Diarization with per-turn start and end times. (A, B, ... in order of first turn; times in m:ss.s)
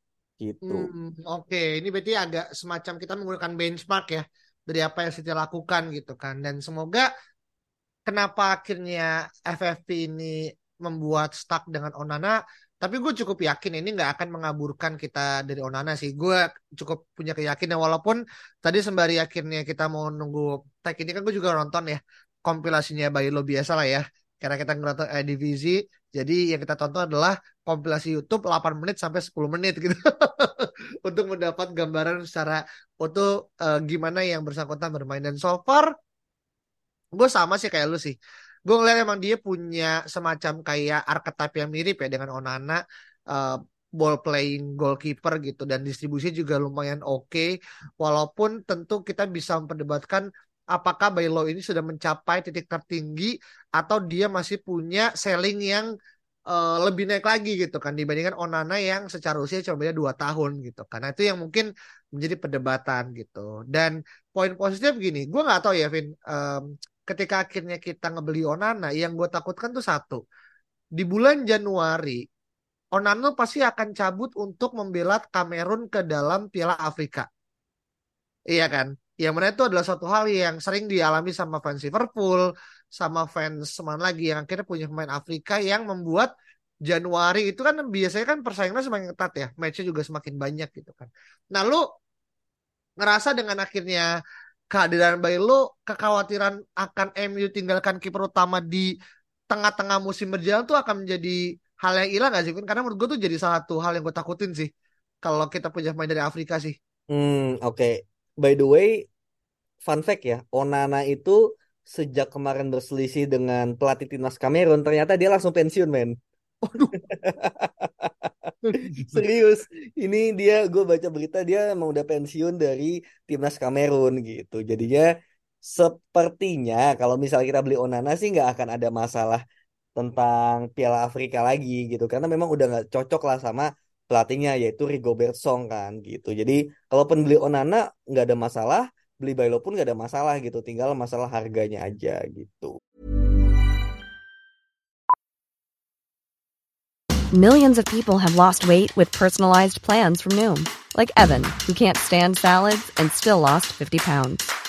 0:00.4-0:00.9 A
0:00.7-0:07.1 B
0:08.1-0:35.9 B
0:37.2-0:55.9 B
0:56.5-1:10.2 B
1:11.0-1:12.2 B
1:13.0-1:17.3 B
1:18.5-1:26.3 B
1:26.9-1:31.8 B
1:33.0-1:34.1 B
1:34.7-1:38.9 B
1:39.5-1:44.7 B
1:45.2-1:46.8 B
1:47.1-1:49.0 A
1:49.9-1:56.2 A
1:56.7-1:57.0 B
1:57.0-1:58.3 A
1:58.6-1:59.2 B
1:58.9-2:05.1 A
2:05.6-2:09.4 A
2:10.0-2:22.7 A
2:27.3-2:34.5 C